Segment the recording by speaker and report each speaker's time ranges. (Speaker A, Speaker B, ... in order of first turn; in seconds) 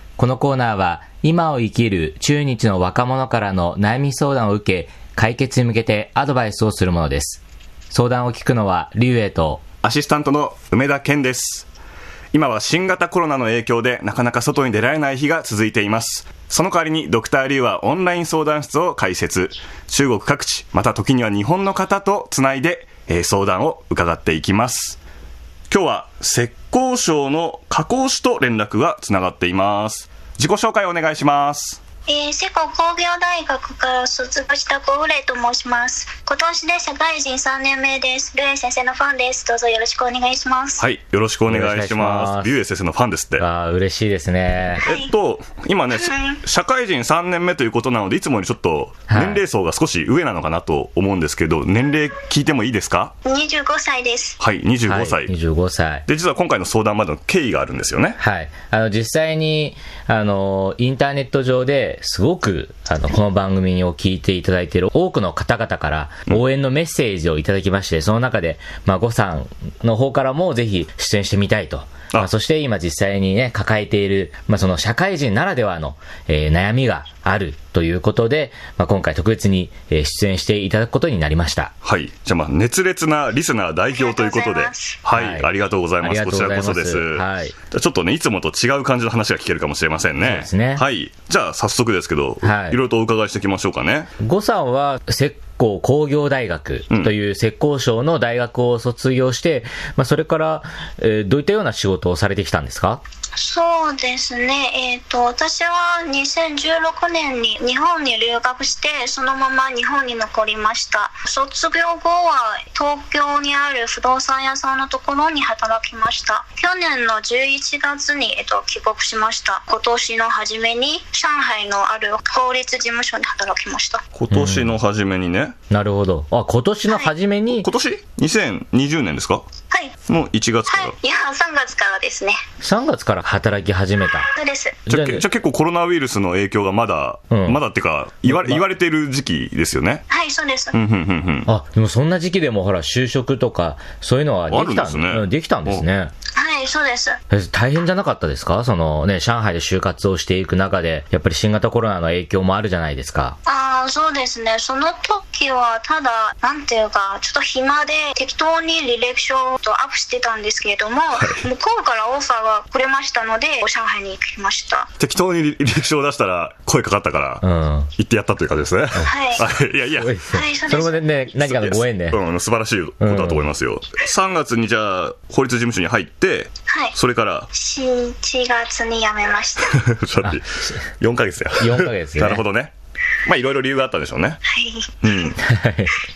Speaker A: 0.2-9.6, 41.5-42.6, 43.4-44.8, 49.1-49.4, 54.9-56.0, 58.2-81.7, 85.1-87.5, 90.2-90.8, 92.4-92.8, 94.2-103.0, 124.3-124.8, 125.7-127.7, 132.6-134.3, 134.9-135.2, 137.3-137.6, 138.3-138.6, 141.5-146.1, 147.3-153.4, 167.4-167.9, 170.0-172.2, 173.0-173.5, 181.6-182.4, 185.4-185.9
Speaker B: 9.8-11.7, 12.3-25.0, 25.7-31.8, 40.8-43.5, 44.8-53.1, 54.4-55.3, 56.0-58.2, 81.8-94.1, 124.1-125.5, 127.5-129.4, 130.1-130.9, 134.9-140.1, 140.7-141.5, 144.5-145.8, 165.0-167.4, 168.0-170.2, 171.4-177.5, 179.7-182.7, 183.2-184.4, 185.0-185.4
Speaker C: 32.1-40.9, 44.8-45.1, 45.9-46.4, 53.2-54.4, 83.9-85.0, 103.3-124.0, 126.9-127.1, 129.7-129.9, 130.7-132.4, 134.3-134.8, 140.1-140.8, 146.3-147.2, 153.4-164.9, 169.0-169.5, 170.3-171.1, 176.7-176.9, 177.5-179.8, 184.4-185.1